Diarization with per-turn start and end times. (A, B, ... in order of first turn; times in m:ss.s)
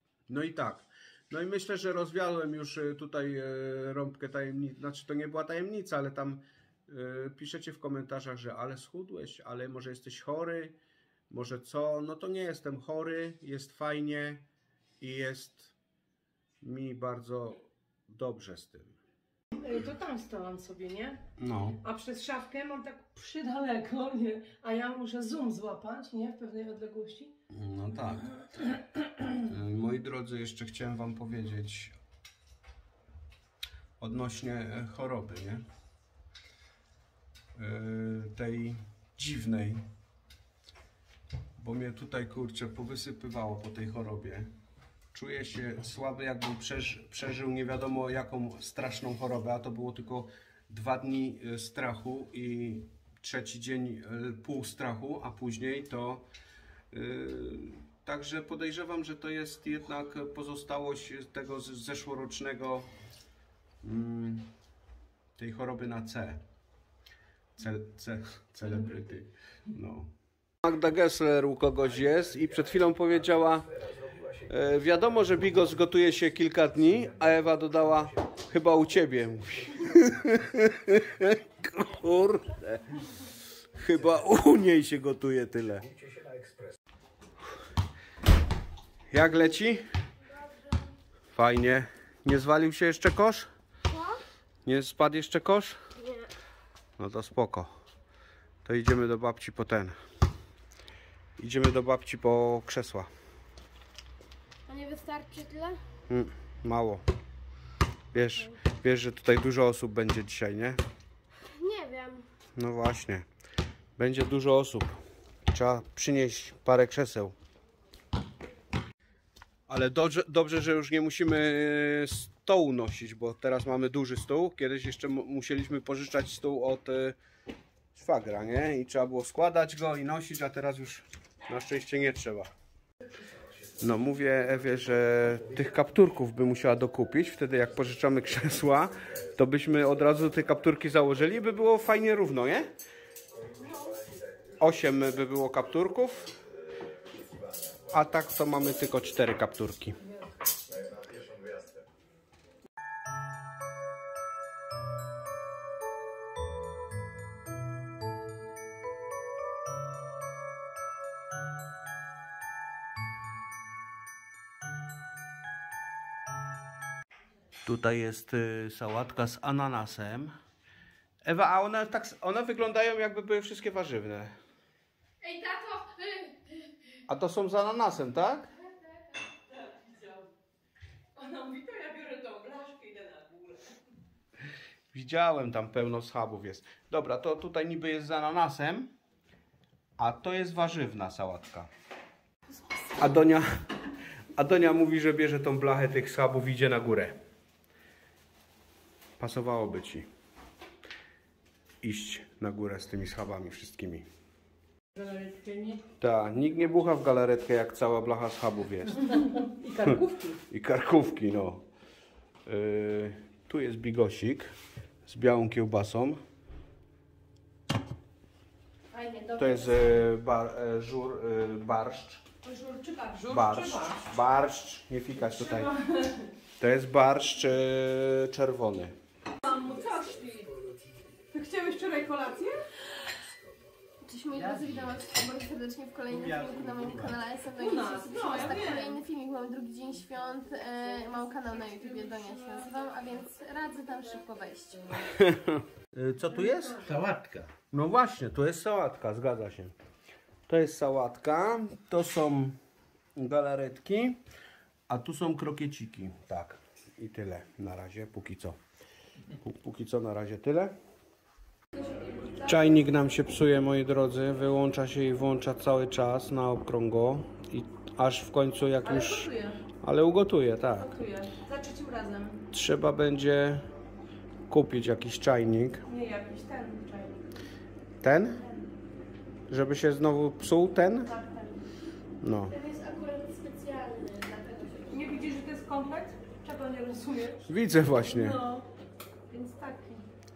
0:00.3-0:10.8 A
0:11.3-0:14.4 A
0:15.0-0:15.7 A
0:16.6-0:19.0 A
0:19.6-0:21.2 B
0:21.4-0:21.8 A
0:21.8-0:27.3 B
0:27.5-0:32.0 A
0:34.0-0:35.6 A
0:37.6-0:39.9 A
0:41.6-0:44.5 A
0:45.1-0:56.3 A
0:56.9-1:02.9 A
1:03.8-1:04.5 A
1:05.4-1:06.4 A
1:07.6-1:10.1 A
1:10.6-1:13.7 A
1:14.4-1:25.9 A
1:29.1-1:29.8 A
1:31.3-1:33.5 A
1:33.9-1:34.2 C
1:34.6-1:35.8 A
1:36.0-1:36.3 C
1:37.0-1:37.7 A
1:38.6-1:40.0 A
1:41.4-1:43.1 A
1:44.7-1:45.8 C
1:46.1-1:47.0 A
1:48.1-1:50.8 A
1:51.5-1:52.3 C
1:52.6-1:53.3 A
1:54.0-1:55.0 A
1:55.5-1:57.4 A
1:59.7-2:07.2 A
2:07.9-2:12.5 A
2:13.8-2:22.7 A
2:24.6-2:26.3 A
2:27.9-2:30.0 A
2:47.6-2:50.3 A
2:51.2-2:54.3 A
2:55.2-2:56.5 C
2:57.1-2:58.5 A
2:59.8-3:00.2 B
3:01.2-3:03.8 B
3:04.9-3:08.9 A
3:10.0-3:11.7 A
3:13.0-3:13.6 A
3:14.3-3:17.2 A
3:19.2-3:20.1 A
3:21.8-3:24.1 A
3:25.0-3:25.8 B
3:26.0-3:29.1 A
3:29.4-3:30.4 B
3:30.5-3:31.7 A
3:32.5-3:34.5 A
3:35.0-3:36.2 A
3:38.9-3:39.7 B
3:39.4-3:42.2 A
3:42.4-3:44.0 B
3:43.3-3:45.7 A
3:45.6-3:46.2 B
3:46.6-3:49.0 A
3:49.4-3:50.6 B
3:51.3-3:52.9 B
3:54.0-4:05.0 C
3:57.6-3:59.0 B
4:05.0-4:09.8 A
4:06.5-4:07.0 B
4:10.5-4:12.6 A
4:13.2-4:14.2 A
4:14.9-4:18.6 A
4:19.3-4:20.7 A
4:22.4-4:30.9 A
4:28.8-4:29.6 B
4:30.8-4:32.4 B
4:32.5-4:33.7 A
4:34.5-4:35.8 A
4:35.9-4:37.2 B
4:38.0-4:38.5 A
4:39.5-4:41.1 A
4:41.1-4:41.6 B
4:42.2-4:42.6 A
4:42.5-4:45.1 C
4:44.9-4:48.7 B
4:47.4-4:48.4 A
4:49.3-4:50.1 B